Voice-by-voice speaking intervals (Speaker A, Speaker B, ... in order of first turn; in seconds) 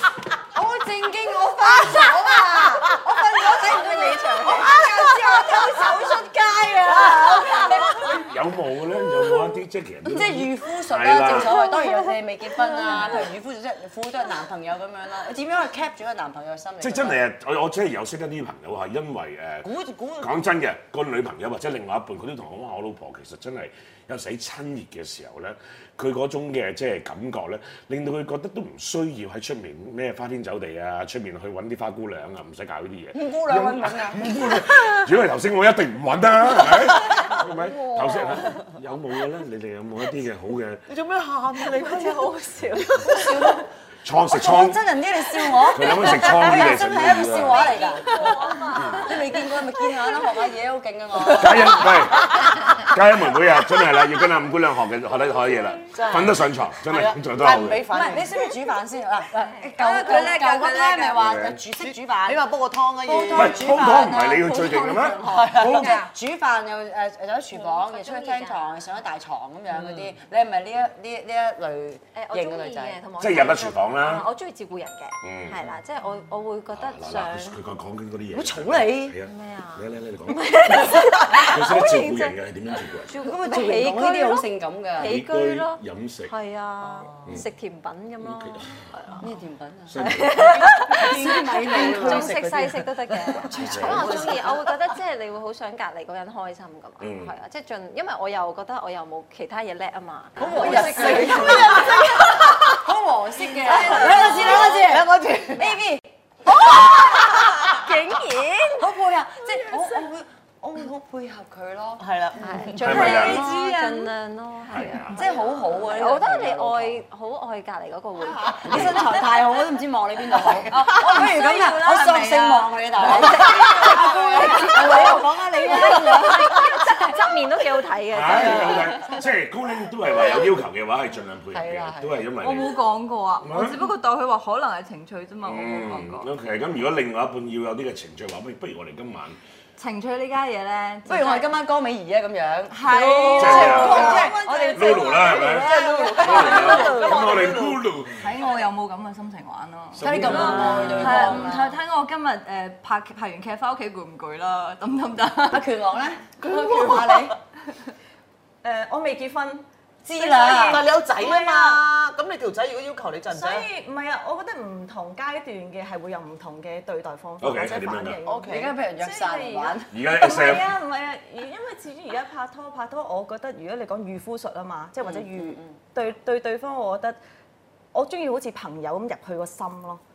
Speaker A: 0.6-8.3, 10.1-17.2, 19.6-20.4, 33.1-34.6, 43.1-43.7, 44.3-52.4, 57.9-73.0, 78.3-79.2, 83.2-85.2, 89.2-90.0, 90.9-92.5, 93.5-94.4, 100.4-102.0, 102.6-107.9, 108.8-113.6, 115.1-117.0, 118.2-127.1, 131.5-132.3, 141.1-145.3, 146.4-146.7, 150.0-151.8, 155.5-157.4, 160.0-160.9, 168.4-169.9, 175.0-175.8
Speaker B: 3.4-4.8, 59.4-59.7, 65.7-66.1, 67.5-68.8, 72.1-77.6, 79.2-82.3, 83.1-84.5, 85.0-89.2, 90.0-102.8, 103.8-104.3, 106.7-108.9, 112.4-119.1, 123.1-129.2
Speaker C: 5.1-5.9, 7.0-7.9, 40.9-43.3, 55.9-58.5, 61.8-64.0, 65.2-65.9, 69.7-70.1, 86.8-87.4, 90.4-94.8, 100.4-102.2, 103.7-105.8, 112.0-113.3, 145.2-147.8, 156.8-157.1, 160.5-163.7, 168.2-168.7
Speaker D: 5.1-6.3, 6.9-7.8, 48.1-48.6, 100.9-101.5, 142.9-147.5, 156.4-157.1, 160.4-161.8, 163.3-177.2, 177.9-180.0
Speaker E: 7.9-11.6, 16.8-19.7, 20.2-40.8, 44.0-44.8, 45.7-47.8, 48.7-49.1, 51.3-57.9, 61.2-61.6, 63.3-66.0, 73.2-74.3, 75.2-75.7, 76.7-83.2, 85.0-86.3, 88.2-88.8, 89.9-90.7, 93.5-94.3, 97.0-97.3, 112.8-113.5, 114.7-115.2, 118.7-119.1, 128.1-132.7, 133.4-133.9, 135.4-139.4, 143.4-148.3, 149.9-151.4, 167.4-168.2, 169.9-170.8
Speaker F: 48.1-48.6, 59.6-61.2, 100.6-101.5, 113.0-114.1, 120.7-125.2, 132.4-136.3, 139.8-141.5, 142.7-145.2, 148.2-155.6, 156.5-156.7, 158.6-159.6, 160.2-160.8